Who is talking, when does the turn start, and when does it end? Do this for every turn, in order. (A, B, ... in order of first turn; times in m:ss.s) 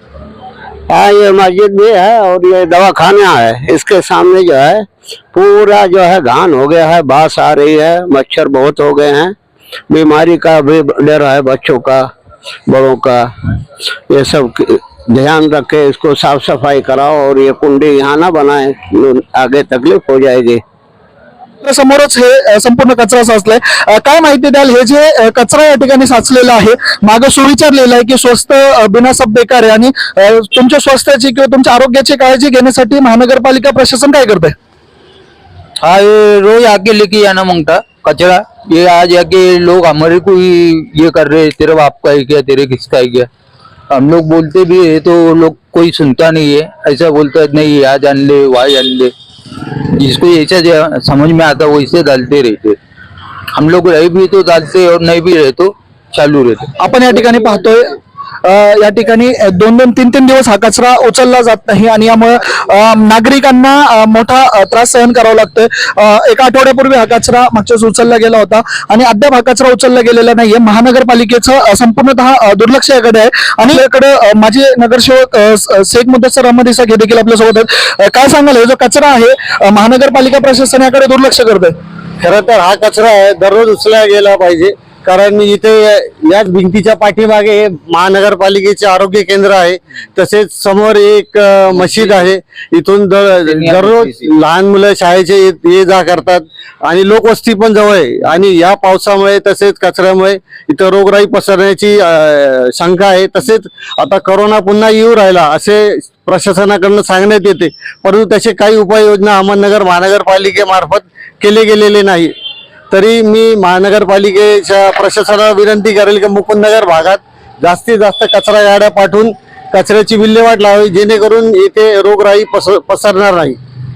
0:00.9-0:09.4 A
0:09.9-0:12.1 A
0:12.7-0:13.3 A
0:14.1-0:20.6 A
0:21.6-0:34.6 B
0:35.8-0:43.3 C
0:43.9-0:49.1 C
0:49.7-0:52.8 C
0:53.5-0:56.7 C
0:56.8-1:21.8 B
1:22.2-1:52.3 D
1:31.7-1:32.3 C
1:33.4-1:34.3 C
1:52.9-2:03.6 D